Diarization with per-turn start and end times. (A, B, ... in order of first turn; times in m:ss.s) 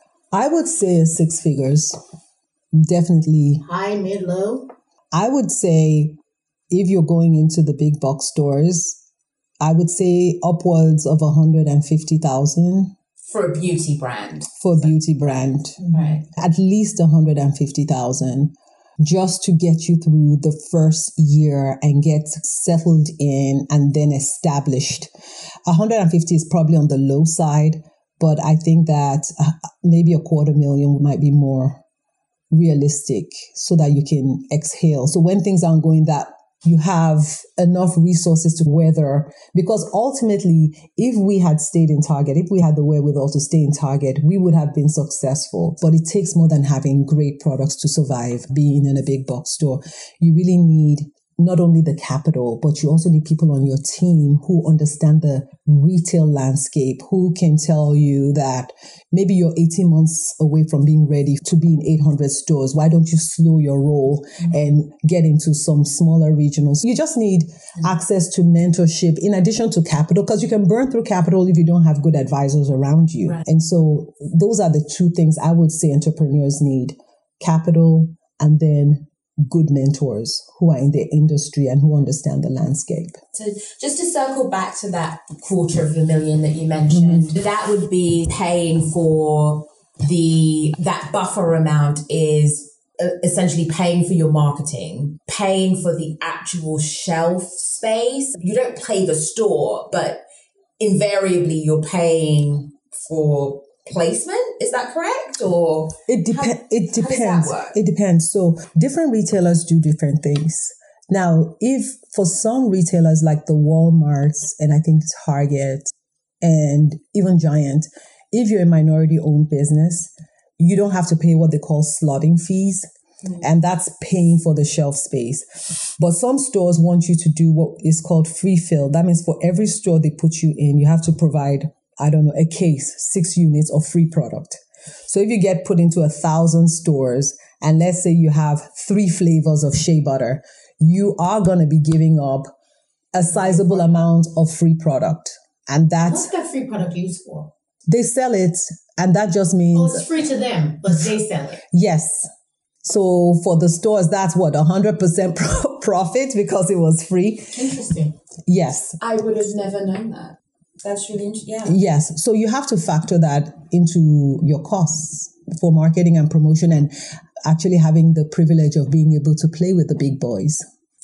0:00.3-0:02.0 A
0:02.7-0:03.6 A
0:03.6-0:04.7 B
0:05.1-0:06.2 A
0:06.7-0:09.0 A
0:09.6-0:12.9 A
0:13.3-0:14.7 C
0:14.6-0:25.1 A
0:15.8-0:16.2 C
0:25.7-0:31.8 A
0:32.5-1:23.2 A
1:23.3-1:40.2 C
1:26.9-1:27.3 A
1:40.8-1:47.8 C
1:46.1-2:02.9 A
2:03.4-2:05.4 A
2:06.0-2:22.5 A
2:23.1-2:26.3 A
2:26.0-2:27.5 B
2:27.9-2:30.1 A
2:29.7-2:31.6 B
2:31.7-2:32.3 A
2:32.8-2:37.6 A
2:37.5-2:38.1 B
2:38.5-2:39.0 A
2:39.0-2:41.8 C
2:41.6-2:46.9 A
2:47.4-2:50.6 A